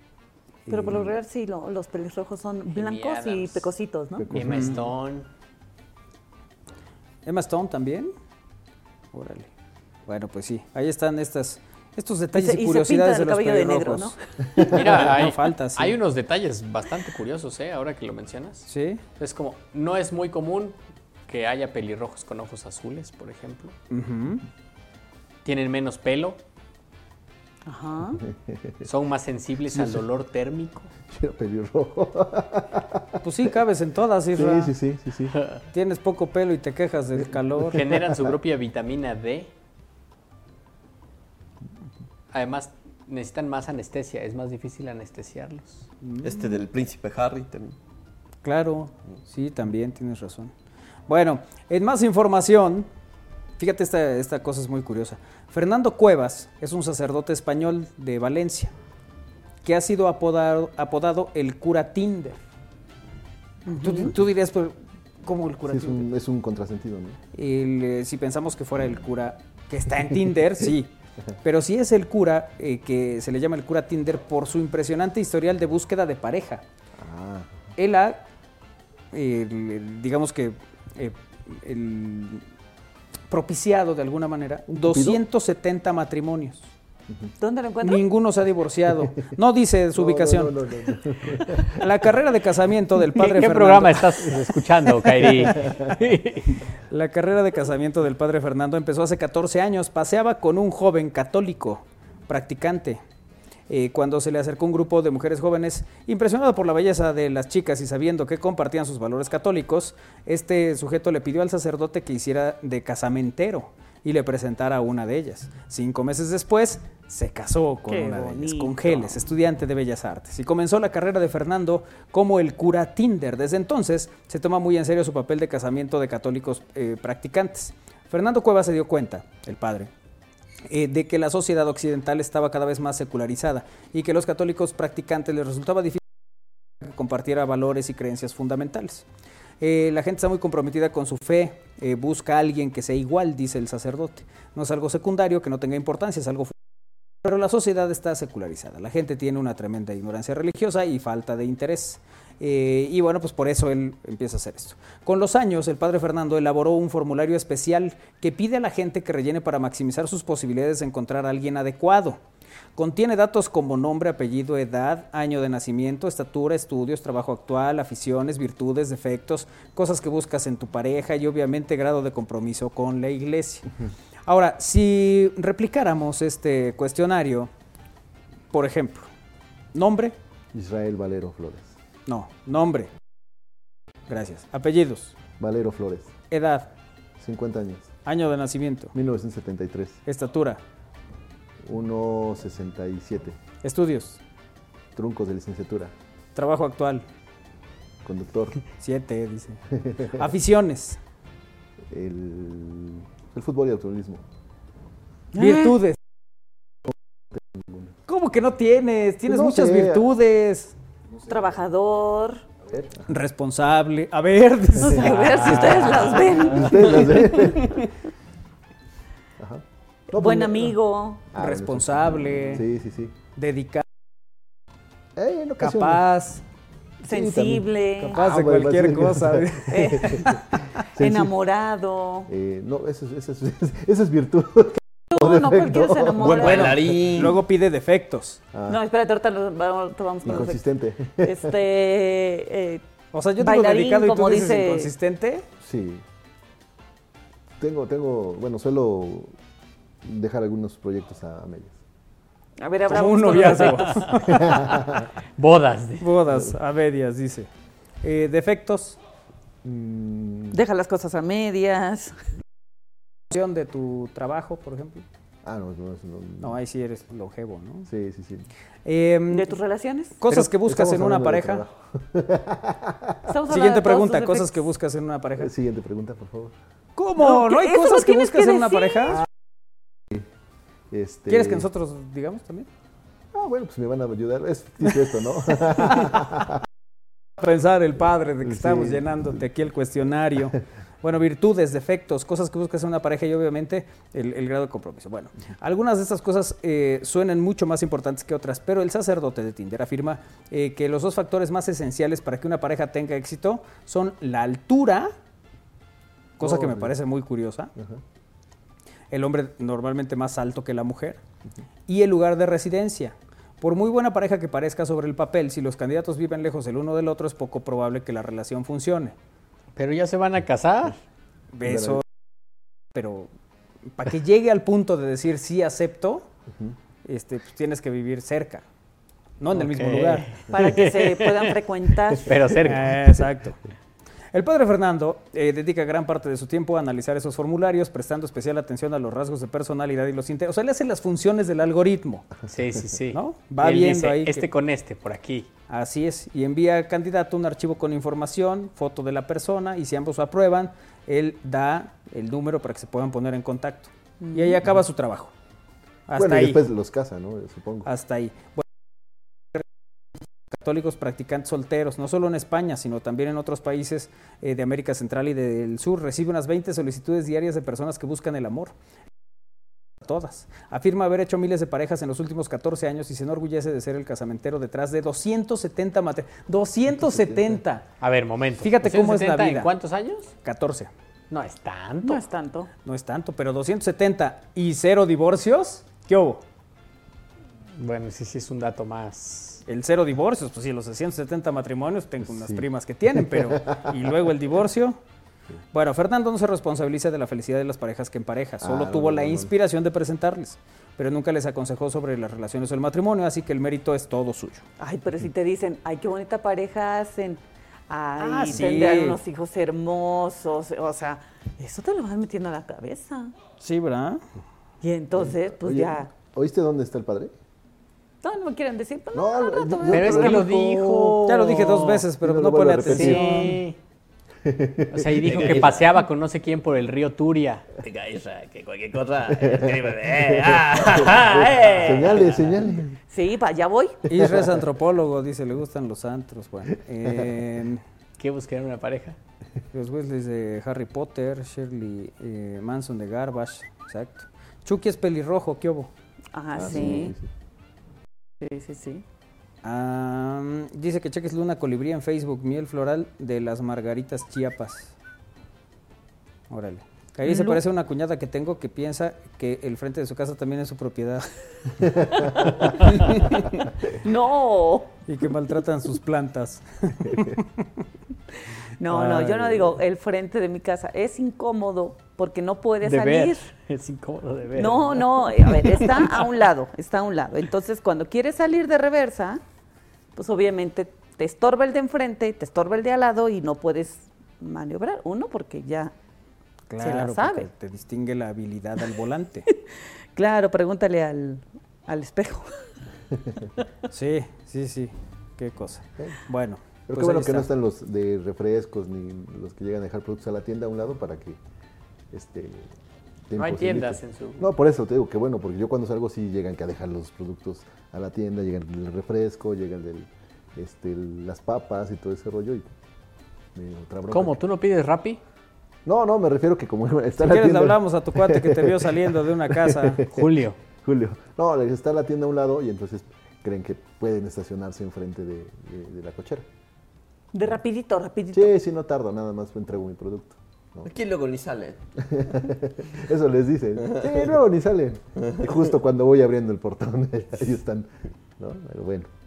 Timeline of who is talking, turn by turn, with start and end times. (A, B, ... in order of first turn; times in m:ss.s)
0:00.7-0:01.0 A
0:00.7-0:04.3 B
0:02.7-0:03.7 C
0:04.2-0:04.8 D
0:04.3-0:05.2 C
0:04.5-0:04.8 A
0:07.2-0:08.1 A
0:09.1-0:09.5 A
0:10.1-0:16.0 A
0:12.3-0:14.6 B
0:14.7-0:18.6 C
0:18.7-0:19.0 A
0:19.2-0:20.7 C
0:21.3-0:23.7 C
0:23.9-0:24.4 A
0:25.4-0:26.4 C
0:27.6-0:28.2 B
0:28.2-0:28.8 D
0:28.8-0:30.9 C
0:29.7-0:30.0 D
0:31.1-0:33.2 D
0:33.2-0:34.7 A
0:34.3-0:35.4 D
0:35.7-0:37.8 A
0:37.7-0:39.5 C
0:37.9-0:38.3 D
0:42.3-0:45.8 C
0:46.0-0:46.4 A
0:46.2-0:47.8 E
0:48.4-0:50.5 A
0:51.1-0:52.9 A
0:53.6-0:58.7 A
0:59.6-1:02.4 A
1:03.7-1:04.1 B
1:03.8-1:06.1 A
1:05.7-1:07.2 D
1:07.3-1:10.9 A
1:11.4-1:16.6 A
1:17.0-1:17.7 D
1:17.8-1:18.2 A
1:19.1-1:22.4 A
1:23.3-1:26.7 A
1:24.7-1:25.2 D
1:27.4-1:28.1 B
1:27.8-1:30.6 A
1:29.9-1:31.8 D
1:31.6-1:34.2 A
1:33.1-1:36.6 C
1:35.2-1:35.9 D
1:36.9-1:43.0 A
1:43.7-2:09.9 A
1:57.9-1:59.2 B
2:10.7-2:16.0 A
2:16.8-2:19.0 A
2:19.6-2:26.5 A
2:27.2-2:42.2 A
2:42.8-2:53.7 A
2:54.2-2:57.5 A
2:58.5-2:59.1 A
2:59.7-3:00.1 A
3:00.5-3:01.7 D
3:02.1-3:02.9 A
3:04.1-3:05.1 A
3:05.4-3:06.1 D
3:06.3-3:06.7 A
3:07.2-3:07.9 D
3:08.0-3:08.9 A
3:08.9-3:10.0 D
3:10.0-3:10.6 A
3:11.6-3:13.4 D
3:13.6-3:14.2 A
3:14.9-3:15.9 D
3:16.3-3:17.0 A
3:18.0-3:18.6 D
3:18.8-3:21.0 A
3:19.7-3:20.2 D
3:21.9-3:24.2 D
3:25.3-3:26.0 A
3:25.4-3:25.7 B
3:26.8-3:27.9 D
3:28.1-3:30.7 A
3:29.2-3:30.1 D
3:31.2-3:32.4 B
3:32.6-3:33.0 D
3:33.1-3:36.5 A
3:34.8-3:36.8 B
3:36.4-3:37.7 D
3:39.4-3:40.8 D
3:40.1-3:41.2 B
3:41.3-3:43.1 D
3:41.4-3:42.6 A
3:43.4-3:43.8 A
3:45.2-3:46.0 D
3:45.6-3:46.4 A
3:47.0-3:51.3 D
3:47.0-3:48.2 B
3:48.1-3:50.4 A
3:49.7-3:52.3 B
3:52.3-3:56.9 D
3:55.1-3:56.8 B
3:56.2-3:57.4 E
3:56.4-3:58.4 A
3:58.5-3:58.8 D
3:58.7-4:00.6 B
4:00.2-4:01.5 D
4:01.2-4:02.8 B
4:03.1-4:05.4 A
4:03.4-4:04.9 B
4:05.6-4:06.0 D
4:07.6-4:09.3 D
4:10.0-4:11.8 D
4:12.6-4:14.1 B
4:12.9-4:14.5 A
4:13.6-4:14.5 C
4:14.4-4:14.8 D
4:15.4-4:16.1 C
4:16.0-4:17.5 A
4:18.0-4:19.0 A
4:19.6-4:20.6 D
4:20.5-4:22.2 B
4:23.3-4:25.0 A
4:25.4-4:26.6 D
4:26.4-4:27.9 A
4:27.8-4:28.5 D
4:28.8-4:29.5 A
4:29.3-4:30.2 B
4:30.2-4:31.6 A
4:30.3-4:33.3 D
4:33.3-4:34.6 B
4:33.5-4:35.5 A
4:35.4-4:36.5 D
4:37.0-4:39.2 A
4:37.2-4:39.2 B
4:39.9-4:40.2 D
4:40.9-4:41.7 D
4:41.3-4:42.7 A
4:43.3-4:46.6 D
4:47.4-5:05.1 A
4:48.4-4:49.4 D
5:06.4-5:07.7 A
5:06.4-5:06.9 D
5:07.8-5:08.0 D
5:09.1-5:11.2 A
5:11.9-5:19.1 A
5:19.8-5:21.0 C
5:21.5-5:22.0 A
5:21.6-5:22.0 D
5:22.9-5:23.3 A
5:23.9-5:26.2 A
5:27.0-5:28.6 A
5:29.4-5:30.3 A
5:29.5-5:31.5 C
5:30.5-5:32.4 B
5:32.2-5:33.3 C
5:32.6-5:33.6 A
5:34.3-5:42.3 A
5:42.5-5:45.5 C
5:43.1-5:44.5 A
5:45.7-5:55.3 A
5:54.2-5:54.6 B
5:56.1-5:56.6 A
5:56.2-5:57.9 D
5:57.8-5:58.6 A
6:00.5-6:08.7 A
6:10.0-6:17.8 A
6:17.0-6:17.6 D
6:18.0-6:20.3 C
6:18.6-6:19.7 A
6:20.4-6:20.9 A
6:21.3-6:22.2 C
6:22.0-6:22.7 B
6:22.8-6:26.4 A
6:27.8-6:29.6 C
6:29.7-6:35.0 A
6:32.2-6:34.0 D
6:35.7-6:44.6 A
6:38.6-6:39.5 D
6:44.8-6:53.3 B
6:48.2-6:49.2 A
6:53.6-6:54.2 A
6:54.8-6:56.1 B
6:55.2-6:57.3 D
6:58.2-7:00.6 B
6:59.1-7:01.2 D
6:59.9-7:02.0 C
7:01.2-7:03.5 A
7:02.2-7:03.5 D
7:02.9-7:03.8 C
7:04.4-7:05.8 D
7:04.9-7:07.6 C
7:05.3-7:05.8 E
7:07.8-7:10.9 E
7:09.4-7:13.0 D
7:10.1-7:11.5 C
7:11.6-7:12.2 B
7:13.1-7:14.0 B
7:14.1-7:14.6 D
7:14.1-7:17.8 A
7:18.2-7:19.2 C
7:19.7-7:25.9 A
7:26.3-7:27.1 B
7:26.5-7:27.3 D
7:28.4-7:29.0 B
7:29.6-7:35.0 A
7:36.5-7:42.3 A
7:37.2-7:37.6 B
7:42.4-7:43.0 B
7:43.9-7:45.0 B
7:45.1-7:47.6 A
7:48.8-7:53.5 B
7:48.9-7:49.7 A
7:52.8-7:56.3 C
7:54.5-7:59.4 B
8:00.2-8:05.9 B
8:06.7-8:09.4 A
8:06.8-8:07.5 B
8:10.1-8:12.7 B
8:13.9-8:17.5 A
8:16.9-8:21.4 D
8:22.1-8:22.7 D
8:23.3-8:32.7 D
8:23.4-8:24.5 C
8:33.5-8:34.4 D
8:34.1-8:35.2 C
8:35.8-8:46.5 D
8:37.2-8:40.0 A
8:40.1-8:40.6 C
8:47.3-8:48.5 B
8:48.3-8:50.9 D
8:50.8-8:51.8 E
8:52.0-8:59.1 D
8:53.9-8:54.2 E